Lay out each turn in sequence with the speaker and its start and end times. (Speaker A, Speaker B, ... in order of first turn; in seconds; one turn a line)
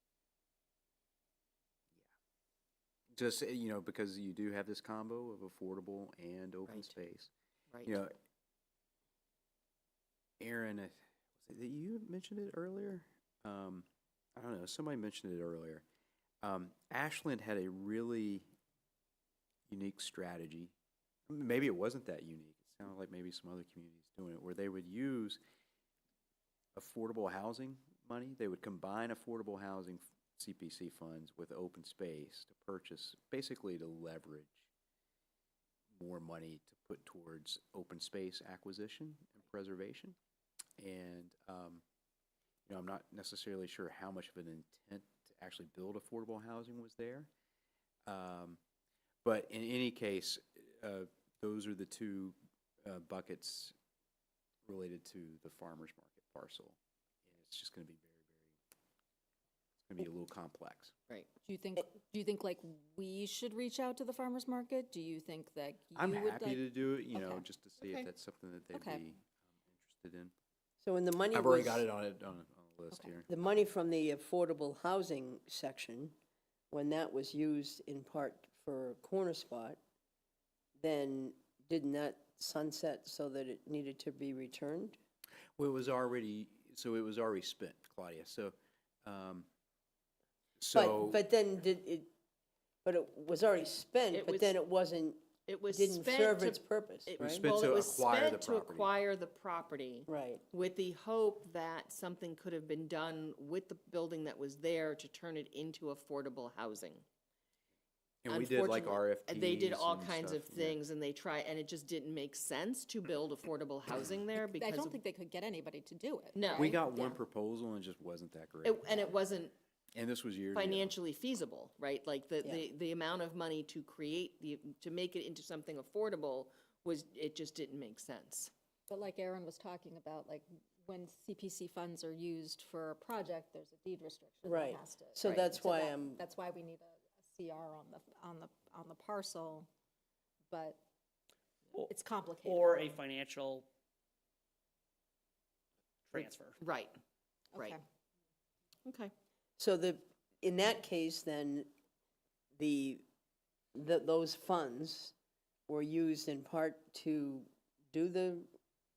Speaker A: 3.1-7.3
Speaker B: 6.7-6.9
Speaker A: 7.8-8.1
Speaker A: 10.4-15.8
Speaker A: 16.4-18.5
Speaker A: 19.7-20.7
Speaker A: 21.3-25.4
Speaker A: 26.8-34.7
Speaker A: 35.9-40.2
Speaker A: 40.8-41.8
Speaker A: 42.7-47.3
Speaker A: 48.1-48.6
Speaker A: 49.2-53.7
Speaker A: 54.6-58.5
Speaker A: 59.8-60.9
Speaker C: 61.4-67.5
Speaker A: 66.0-70.3
Speaker B: 67.8-68.1
Speaker C: 68.7-69.0
Speaker D: 70.8-71.8
Speaker A: 71.3-73.3
Speaker D: 73.3-76.1
Speaker D: 76.7-79.8
Speaker D: 80.8-85.0
Speaker A: 85.6-89.5
Speaker A: 90.6-91.2
Speaker D: 90.7-92.1
Speaker D: 92.8-97.5
Speaker B: 94.1-94.5
Speaker B: 95.5-107.0
Speaker A: 97.2-98.9
Speaker D: 100.1-100.4
Speaker A: 108.2-110.8
Speaker B: 108.3-115.0
Speaker C: 114.3-117.2
Speaker B: 116.4-116.8
Speaker A: 116.5-118.9
Speaker B: 118.6-119.5
Speaker A: 120.0-120.9
Speaker B: 120.5-128.5
Speaker C: 128.9-139.7
Speaker D: 134.4-136.2
Speaker C: 140.5-140.8
Speaker E: 141.7-143.7
Speaker C: 141.9-142.7
Speaker E: 146.1-146.6
Speaker B: 146.6-147.0
Speaker C: 147.6-147.8
Speaker B: 148.8-149.1
Speaker D: 149.6-151.7
Speaker D: 152.6-153.0
Speaker D: 153.8-155.1
Speaker D: 155.7-158.5